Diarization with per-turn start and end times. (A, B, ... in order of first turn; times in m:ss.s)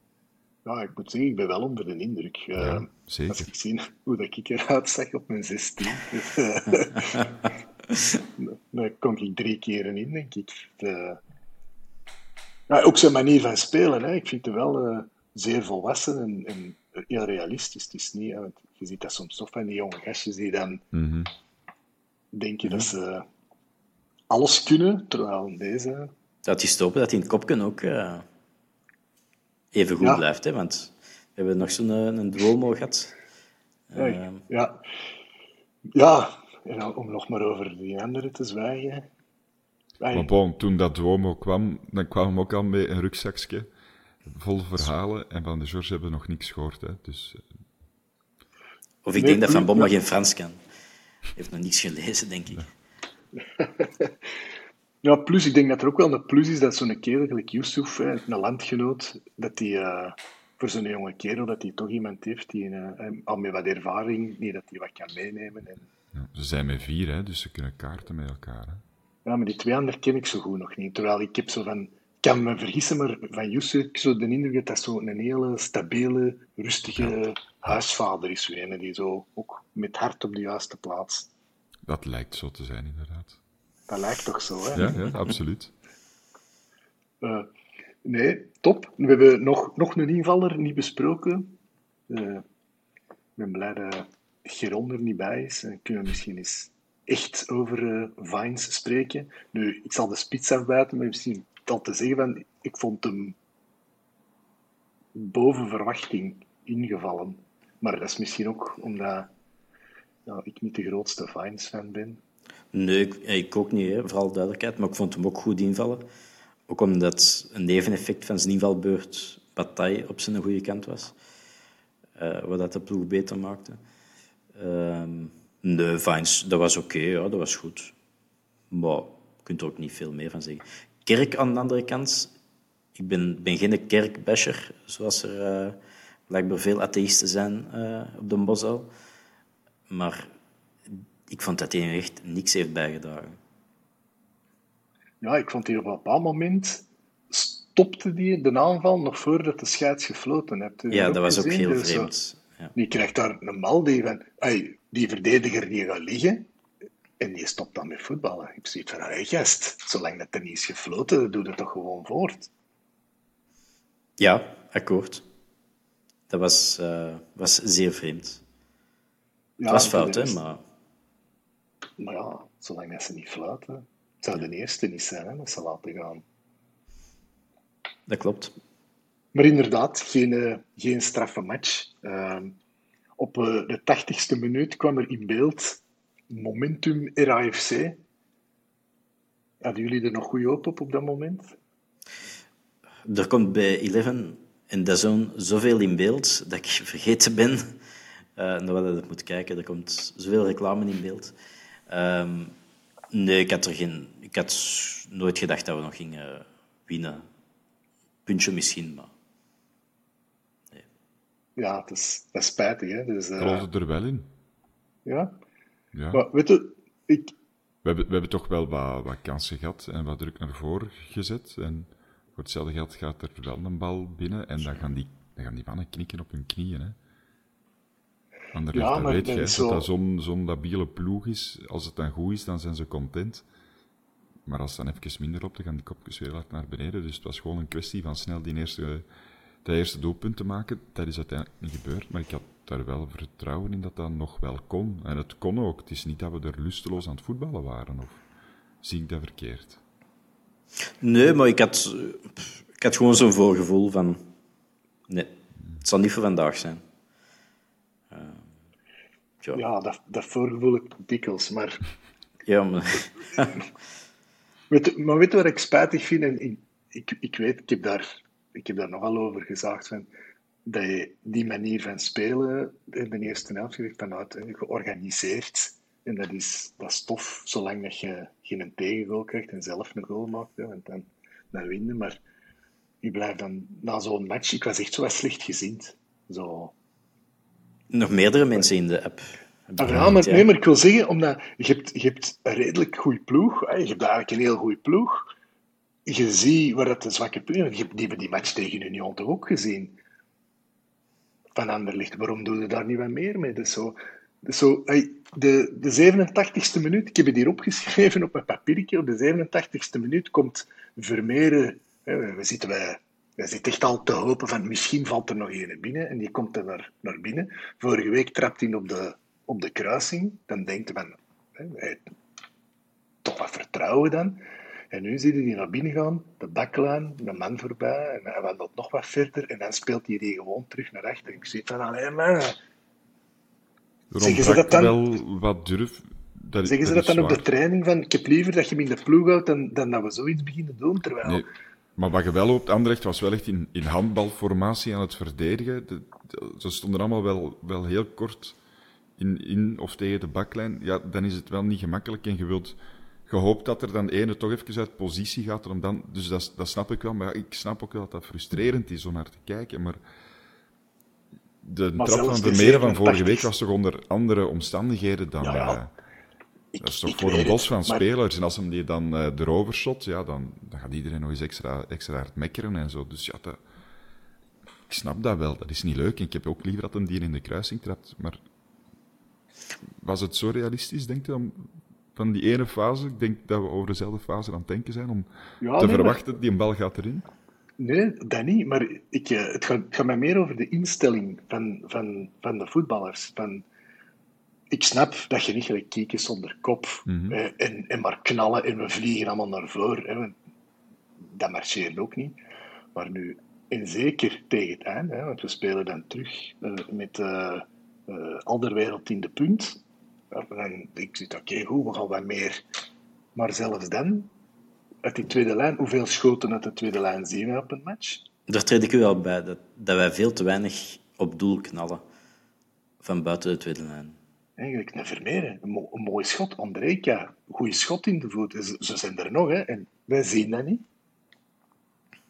0:00.6-0:07.3 A
0:02.6-0:03.5 B
0:08.1-0:11.2 A
0:12.7-0:20.8 A
0:20.9-0:21.3 B
0:22.3-0:23.2 A
0:22.6-0:22.9 C
0:24.3-0:26.1 A
0:26.4-0:28.2 C
0:29.7-0:33.1 C
0:33.9-0:34.4 C
0:34.0-0:34.8 A
0:35.9-0:39.1 A
0:40.0-0:40.3 A
0:40.1-0:43.7 B
0:44.3-0:47.4 B
0:49.0-0:50.6 C
0:49.2-0:49.9 A
0:51.4-0:52.7 C
0:53.6-0:54.1 A
0:55.0-1:05.9 A
1:06.1-1:08.8 B
1:09.2-1:21.3 A
1:21.9-1:23.4 B
1:23.9-1:25.2 A
1:24.7-1:25.7 B
1:27.2-1:27.5 A
1:28.0-1:31.5 A
1:32.1-1:32.4 A
1:33.4-1:43.4 A
1:45.1-1:49.3 A
1:50.2-1:52.2 A
1:52.7-1:56.1 C
1:56.7-2:01.1 C
2:02.2-2:03.8 C
2:04.5-2:07.9 C
2:08.7-2:12.3 C
2:12.9-2:15.8 C
2:16.3-2:18.9 C
2:19.9-2:20.3 C
2:20.9-2:23.4 C
2:25.2-2:32.1 A
2:30.9-2:32.7 C
2:32.7-2:36.5 A
2:37.2-2:42.5 A
2:44.2-2:45.2 C
2:46.3-2:48.4 C
2:49.6-2:50.4 A
2:49.7-2:50.6 C
2:52.0-2:56.2 A
2:58.1-2:58.5 C
2:59.3-3:02.5 A
3:03.2-3:08.0 A
3:09.6-3:11.6 A
3:13.0-3:17.7 C
3:18.4-3:21.3 C
3:21.9-3:22.5 C
3:23.1-3:27.2 C
3:28.2-3:29.1 C
3:31.6-3:33.6 A
3:33.4-3:34.3 B
3:35.0-3:35.3 A
3:35.9-3:36.2 B
3:36.1-3:37.3 A
3:37.8-3:47.0 B
3:48.5-3:53.4 B
3:48.7-3:49.8 A
3:54.5-3:59.1 B
3:59.6-4:08.2 B
4:08.8-4:09.8 B
4:11.0-4:14.2 C
4:15.1-4:16.8 C
4:18.1-4:18.5 C
4:19.5-4:21.8 A
4:22.5-4:23.6 C
4:24.7-4:30.1 A
4:30.6-4:42.2 A
4:43.0-4:46.7 A
4:47.9-4:50.5 C
4:49.8-4:55.3 A
4:56.1-5:00.0 A
5:01.5-5:22.1 A
5:23.2-5:32.6 A
5:34.1-5:37.5 B
5:34.2-5:35.0 A
5:36.6-5:41.5 A
5:41.2-5:48.6 B
5:49.2-6:00.0 B
6:01.6-6:05.9 B
6:02.0-6:03.5 A
6:05.4-6:05.8 A
6:06.7-6:08.0 A
6:06.8-6:13.6 B
6:14.9-6:18.4 B
6:20.0-6:27.3 B
6:25.6-6:26.2 A
6:27.8-6:33.6 A
6:34.7-6:40.4 A
6:37.1-6:37.4 B
6:41.3-6:42.4 A
6:42.9-6:49.8 A
6:50.3-6:52.6 A
6:53.4-6:54.3 A
6:55.0-6:58.2 A
6:58.5-7:02.0 C
7:03.0-7:04.2 C
7:04.6-7:10.8 A